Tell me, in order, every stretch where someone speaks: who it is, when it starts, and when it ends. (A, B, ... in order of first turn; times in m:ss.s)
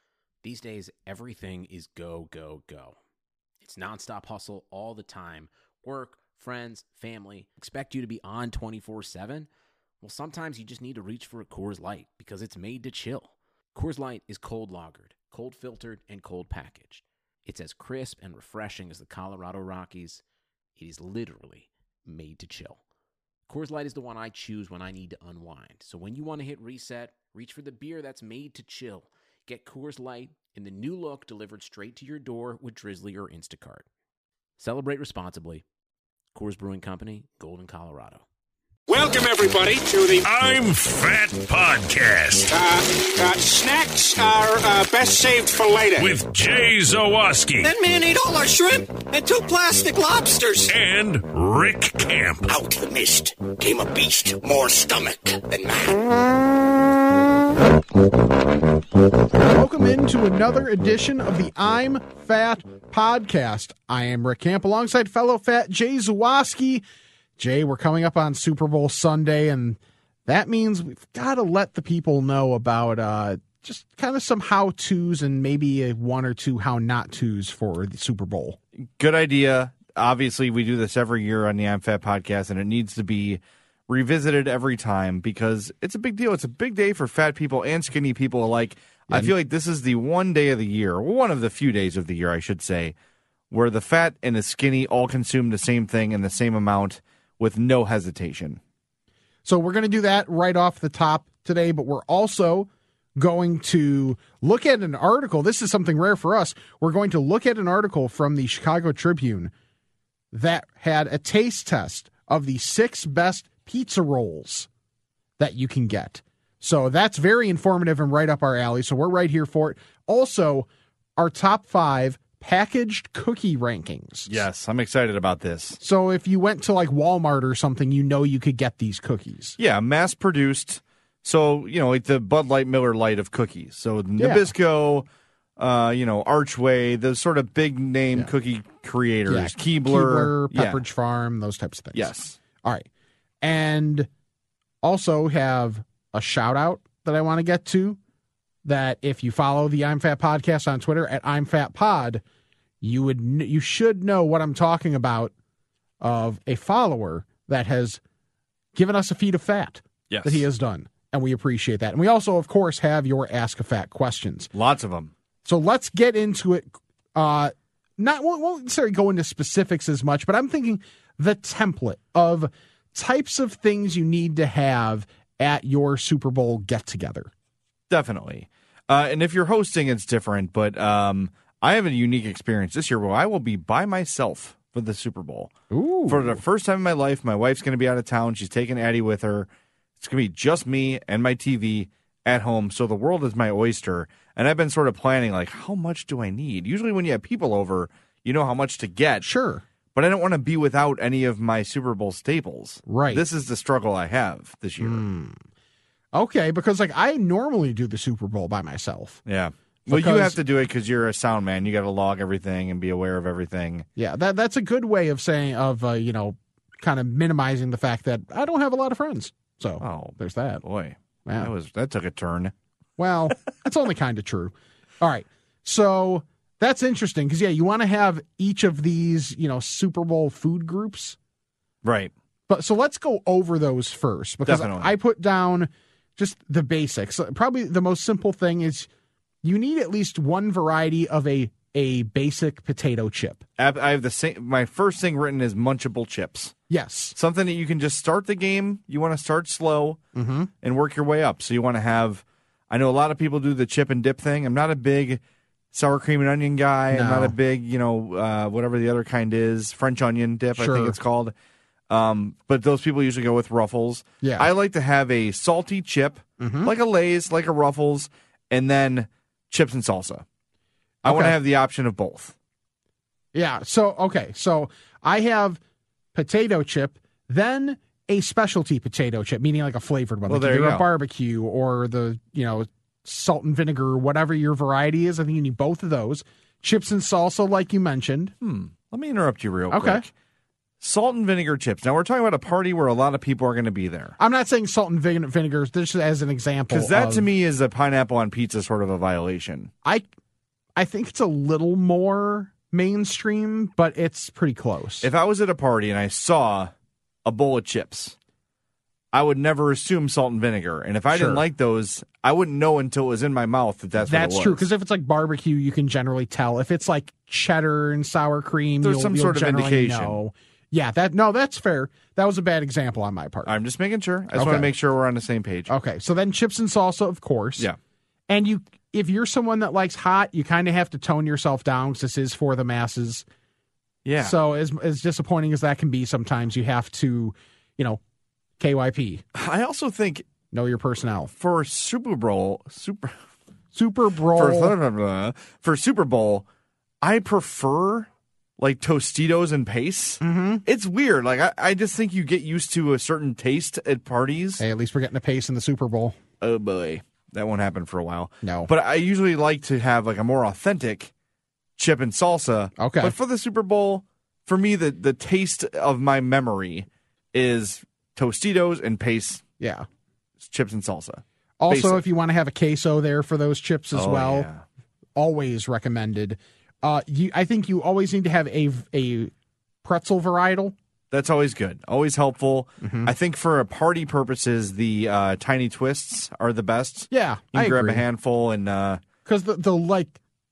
0:00.4-0:03.0 A
0:03.6-0:09.5 A
0:10.0-0:20.2 A
0:20.8-0:22.8 A
0:23.5-0:33.8 A
0:34.6-0:35.6 A
0:36.3-0:38.2 A
0:38.9-0:40.2 B
0:40.2-0:42.5 C
0:42.5-0:46.2 B
0:46.0-0:47.7 C
0:47.6-0:50.7 D
0:50.7-0:52.5 C
0:52.5-0:56.0 D
0:59.4-1:06.8 E
1:07.4-1:18.6 E
1:18.8-1:32.9 F
1:33.5-1:38.6 F
1:39.4-1:49.5 E
1:50.3-1:54.7 E
1:55.4-2:04.3 E
2:04.3-2:05.8 F
2:05.8-2:09.6 E
2:09.6-2:20.8 F
2:14.2-2:14.5 E
2:19.3-2:22.8 E
2:21.9-2:22.4 F
2:23.4-2:24.1 E
2:24.8-2:28.0 E
2:28.6-2:32.2 E
2:32.8-2:35.3 E
2:36.0-2:38.0 E
2:38.7-2:44.5 E
2:40.1-2:40.4 F
2:44.5-2:45.1 F
2:45.4-2:57.3 E
2:57.9-3:05.5 F
3:05.7-3:06.4 E
3:06.1-3:19.3 F
3:19.2-3:19.6 E
3:19.9-3:25.0 F
3:22.9-3:23.2 E
3:24.8-3:25.4 E
3:26.1-3:29.2 E
3:29.2-3:33.9 F
3:29.9-3:30.4 E
3:34.0-3:40.6 E
3:39.8-3:42.5 F
3:43.0-3:51.2 E
3:51.8-3:52.1 F
3:52.5-3:58.9 E
3:54.4-3:54.9 F
3:59.4-4:03.4 E
4:03.6-4:06.5 F
4:06.7-4:07.2 E
4:07.2-4:10.0 F
4:10.1-4:10.5 E
4:10.6-4:15.2 F
4:15.7-4:21.3 F
4:16.9-4:17.3 E
4:20.6-4:21.0 E
4:21.9-4:30.2 F
4:24.2-4:24.5 E
4:26.4-4:26.7 E
4:31.0-4:32.3 F
4:31.0-4:31.3 E
4:33.3-4:35.6 E
4:36.1-4:48.3 E
4:40.3-4:40.9 F
4:48.4-4:50.1 F
4:49.7-4:50.0 E
4:50.8-4:54.2 F
4:54.2-4:57.3 E
4:56.7-4:59.7 F
5:00.8-5:05.1 E
5:05.0-5:06.7 F
5:07.2-5:08.2 F
5:09.1-5:14.7 F
5:11.1-5:11.4 E
5:14.0-5:23.5 E
5:18.8-5:20.2 F
5:23.4-5:25.7 F
5:24.3-5:24.7 E
5:25.7-5:27.7 E
5:28.3-5:33.2 E
5:34.0-5:34.4 F
5:34.2-5:38.0 E
5:38.6-5:39.2 E
5:39.3-5:40.2 F
5:40.5-5:41.3 E
5:41.4-5:43.2 F
5:43.7-5:44.8 E
5:44.3-5:46.4 F
5:47.0-5:48.1 F
5:48.6-5:54.6 F
5:50.2-5:50.6 E
5:54.6-5:56.2 E
5:56.4-6:01.1 F
5:58.4-5:58.7 E
6:01.8-6:09.4 F
6:02.8-6:03.2 E
6:09.6-6:09.8 E
6:10.4-6:12.0 F
6:11.6-6:14.5 E
6:13.9-6:14.6 F
6:15.2-6:19.3 E
6:19.8-6:20.7 E
6:21.1-6:29.0 F
6:22.8-6:23.1 E
6:27.1-6:28.0 E
6:29.2-6:30.2 E